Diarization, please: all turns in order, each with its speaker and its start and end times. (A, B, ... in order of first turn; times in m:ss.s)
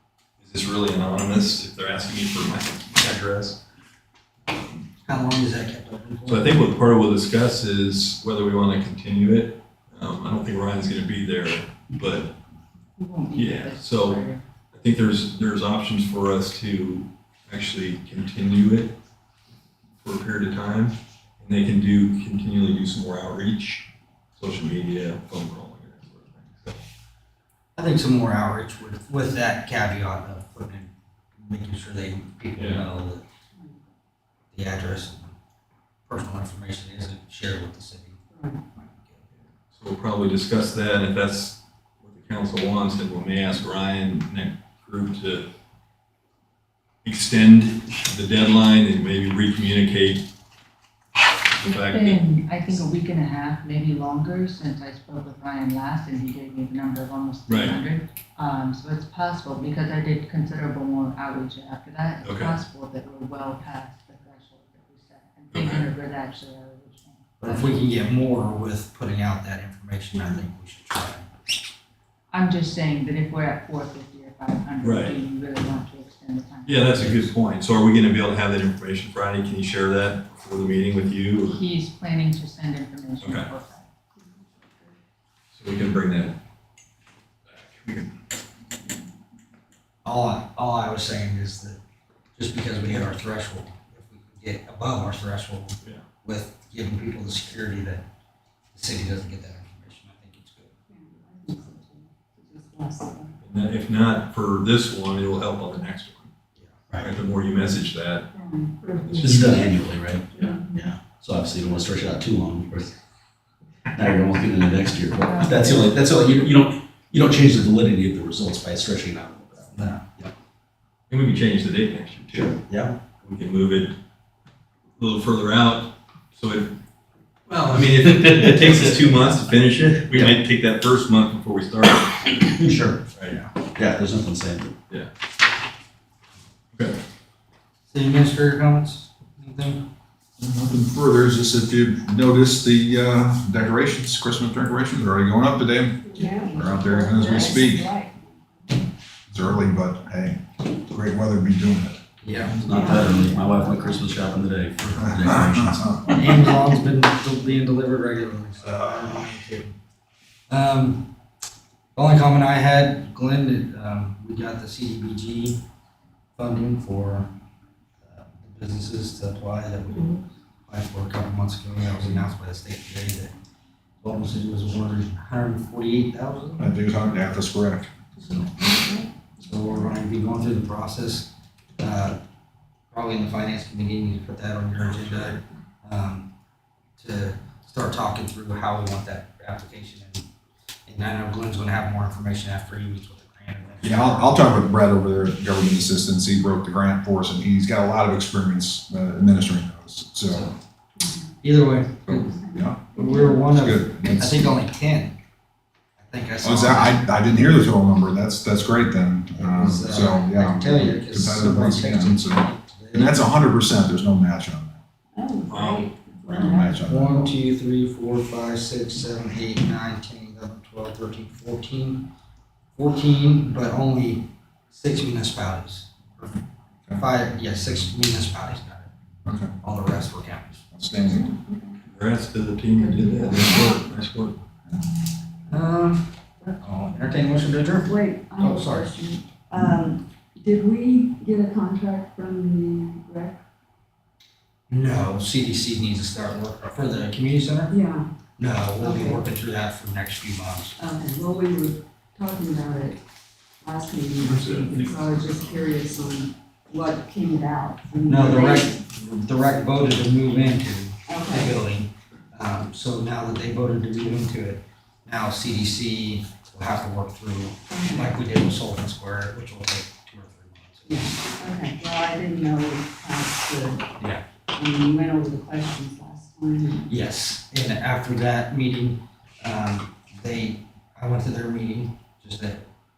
0:00.4-0:03.6 A
0:04.5-0:04.8 A
0:05.0-0:06.6 B
0:06.3-0:12.4 A
0:13.0-0:14.4 C
0:13.4-0:19.0 A
0:20.0-0:26.8 A
0:27.8-0:33.2 B
0:32.6-0:32.8 A
0:34.5-0:35.4 B
0:36.1-0:38.2 B
0:38.3-0:38.6 D
0:38.7-0:39.3 B
0:39.7-0:45.5 A
0:47.0-0:50.3 A
0:51.6-0:52.2 A
0:51.6-1:07.8 C
0:57.5-0:57.8 A
1:02.2-1:02.6 A
1:05.5-1:05.9 A
1:07.4-1:11.3 B
1:12.3-1:17.3 C
1:14.8-1:15.2 A
1:16.6-1:21.6 A
1:21.4-1:23.9 C
1:23.2-1:23.5 A
1:25.5-1:26.4 A
1:27.5-1:28.1 A
1:30.0-1:31.8 B
1:32.4-1:38.0 B
1:38.7-1:40.8 B
1:40.9-1:43.4 D
1:43.4-1:46.3 A
1:47.0-1:48.3 A
1:48.4-1:49.0 D
1:49.0-1:49.6 A
1:49.1-1:49.4 C
1:49.2-1:53.0 E
1:50.4-1:50.8 D
1:53.9-2:00.3 E
1:55.2-1:56.0 C
1:59.7-2:00.0 B
2:01.1-2:02.6 A
2:02.7-2:03.0 E
2:03.2-2:04.0 A
2:05.0-2:06.8 A
2:07.5-2:12.6 A
2:08.2-2:09.2 E
2:12.6-2:13.0 E
2:13.7-2:14.7 E
2:16.7-2:17.0 A
2:17.9-2:19.9 B
2:20.4-2:27.9 F
2:26.1-2:28.3 D
2:29.3-2:32.0 F
2:32.2-2:32.6 B
2:32.6-2:36.0 E
2:32.7-2:34.0 D
2:35.2-2:35.8 F
2:36.1-2:39.7 B
2:40.5-2:41.1 B
2:42.0-2:45.6 B
2:46.4-2:47.3 B
2:48.0-2:53.3 B
2:54.0-2:56.6 B
2:56.6-2:57.9 F
2:58.6-2:59.0 D
2:59.4-3:02.2 B
3:02.9-3:06.3 B
3:07.0-3:10.3 B
3:10.9-3:14.7 B
3:13.8-3:20.5 F
3:20.3-3:20.6 B
3:21.4-3:25.1 B
3:22.1-3:24.5 F
3:26.0-3:27.6 B
3:26.4-3:34.8 F
3:29.4-3:33.2 B
3:35.1-3:36.8 D
3:35.5-3:35.9 A
3:36.3-3:37.3 F
3:36.7-3:42.1 B
3:42.8-3:46.4 B
3:47.0-3:48.9 B
3:49.3-3:49.5 F
3:49.6-3:50.6 B
3:50.7-3:51.3 F
3:51.1-3:51.7 D
3:51.9-3:54.4 A
3:52.8-3:53.7 D
3:55.5-3:58.9 B
3:57.8-4:03.4 D
4:04.7-4:07.8 B
4:07.7-4:08.1 D
4:08.4-4:10.8 B
4:08.8-4:09.2 D
4:10.8-4:13.0 D
4:13.6-4:18.7 D
4:14.2-4:15.8 A
4:18.1-4:31.4 B
4:21.1-4:21.5 D
4:27.7-4:28.2 D
4:30.9-4:33.9 D
4:34.5-4:36.9 D
4:36.9-4:42.7 B